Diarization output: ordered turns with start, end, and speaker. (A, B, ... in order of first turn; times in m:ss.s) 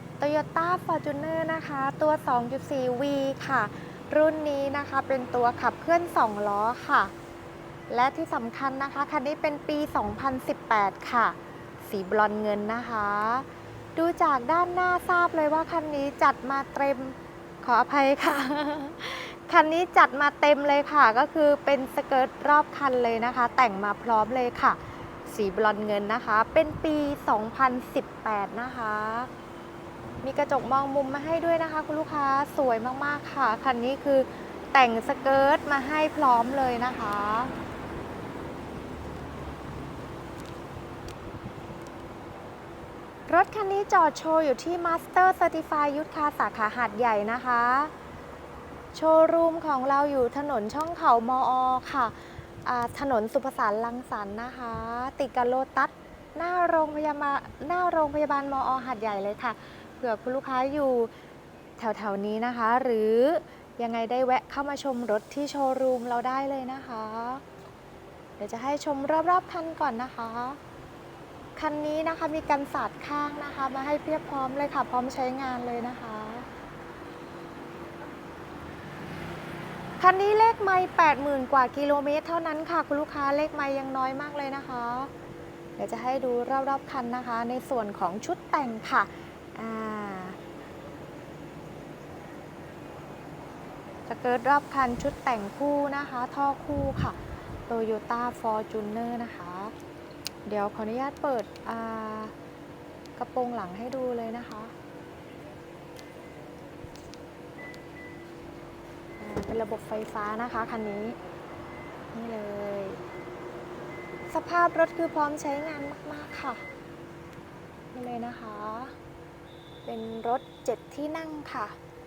0:00.2-0:07.1 A
0:07.9-0:29.3 A
0:30.2-0:37.5 A
0:43.3-0:47.9 A
0:48.9-1:01.1 A
1:01.8-1:07.4 A
1:08.4-1:10.6 A
1:11.6-1:16.5 A
1:20.0-1:25.1 A
1:25.8-1:30.4 A
1:34.1-1:39.7 A
1:40.4-1:42.3 A
1:43.2-1:44.7 A
1:49.2-1:51.2 A
1:52.1-1:53.0 A
1:54.3-1:56.6 A
1:57.9-1:59.0 A
1:59.8-2:01.8 A